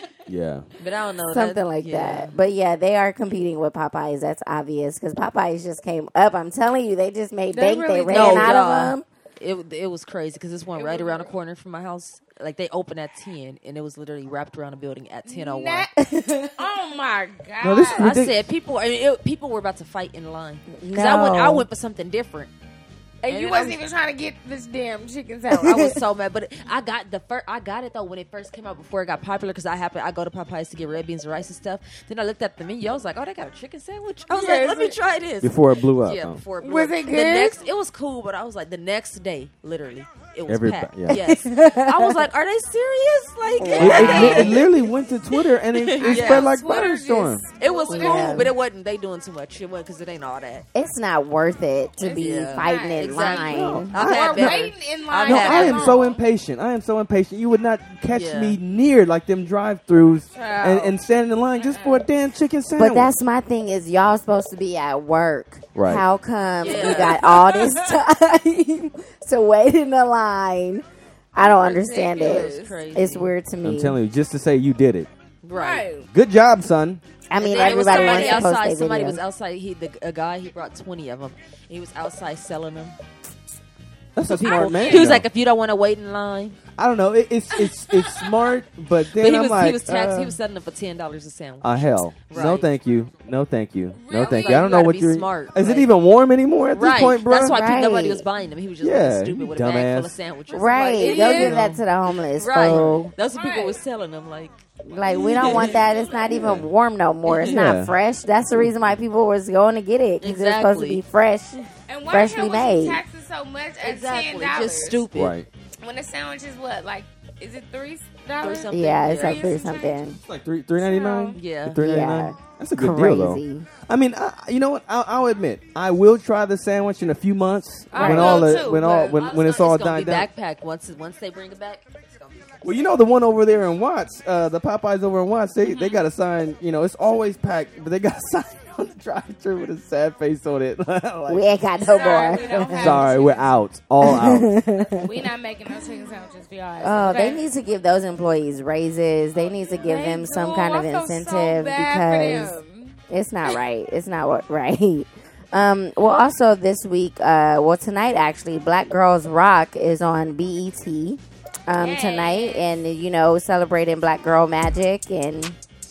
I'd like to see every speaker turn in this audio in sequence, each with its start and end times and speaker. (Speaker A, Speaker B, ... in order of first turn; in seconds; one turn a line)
Speaker A: 0.3-0.7
Speaker B: 0.8-2.3
Speaker C: 1.2-9.1
Speaker D: 7.5-8.6
Speaker B: 8.1-15.9
Speaker D: 10.7-11.3
Speaker D: 15.3-15.9
Speaker C: 16.0-16.5
Speaker D: 16.6-18.1
Speaker A: 17.6-18.4
Speaker B: 17.9-22.5
Speaker C: 20.7-21.7
Speaker D: 23.2-25.9
Speaker B: 23.2-23.8
Speaker C: 25.6-25.9
Speaker B: 25.6-44.6
Speaker D: 34.3-35.0
Speaker A: 35.4-36.4
Speaker D: 36.6-37.6
Speaker A: 40.5-41.2
Speaker C: 41.1-42.2
Speaker C: 43.6-44.6
Speaker D: 43.7-44.8
Speaker A: 43.8-47.4
Speaker B: 45.7-46.5
Speaker D: 46.0-48.5
Speaker B: 47.6-50.6
Speaker C: 47.9-48.5
Speaker C: 50.7-53.9
Speaker D: 52.0-56.2
Speaker B: 52.1-56.0
Speaker A: 53.4-54.7
Speaker A: 55.2-63.1
Speaker B: 58.1-58.6
Speaker D: 60.3-61.0
Speaker D: 61.5-62.0
Speaker C: 62.8-70.8
Speaker A: 65.7-66.0
Speaker B: 66.6-67.2
Speaker D: 66.7-68.0
Speaker C: 71.3-74.0
Speaker D: 71.4-72.8
Speaker B: 72.1-73.3
Speaker A: 73.6-75.1
Speaker B: 75.4-75.9
Speaker D: 75.5-76.1
Speaker A: 76.1-77.0
Speaker C: 77.3-79.2
Speaker D: 77.4-78.5
Speaker B: 77.4-83.0
Speaker A: 84.2-85.2
Speaker B: 84.2-86.6
Speaker D: 84.4-85.2
Speaker A: 86.8-90.4
Speaker B: 89.2-92.7
Speaker A: 91.6-97.6
Speaker D: 93.9-94.9
Speaker B: 94.1-95.9
Speaker B: 96.7-101.8
Speaker C: 97.4-98.2
Speaker A: 98.8-100.2
Speaker C: 100.5-103.1
Speaker D: 101.0-101.6
Speaker A: 101.3-101.8
Speaker B: 102.3-106.2
Speaker D: 103.2-103.8
Speaker C: 104.8-113.0
Speaker D: 105.3-106.2
Speaker A: 106.3-106.7
Speaker B: 107.2-107.6
Speaker A: 107.5-107.9
Speaker B: 110.2-111.0
Speaker D: 111.9-115.0
Speaker B: 113.8-115.3
Speaker A: 115.1-115.5
Speaker D: 115.8-120.0
Speaker B: 118.4-119.5
Speaker C: 118.7-120.2
Speaker A: 120.3-130.3
Speaker D: 120.8-121.4
Speaker B: 121.3-121.8
Speaker C: 121.7-123.7
Speaker D: 127.9-129.2
Speaker C: 128.0-128.4
Speaker B: 128.0-132.6
Speaker A: 132.6-141.5
Speaker D: 135.6-136.0
Speaker C: 141.3-143.0
Speaker D: 141.8-143.5
Speaker A: 142.3-144.5
Speaker C: 144.0-145.3
Speaker D: 144.9-147.4
Speaker C: 146.8-152.6
Speaker D: 149.7-153.0
Speaker C: 153.1-165.6
Speaker D: 161.8-162.7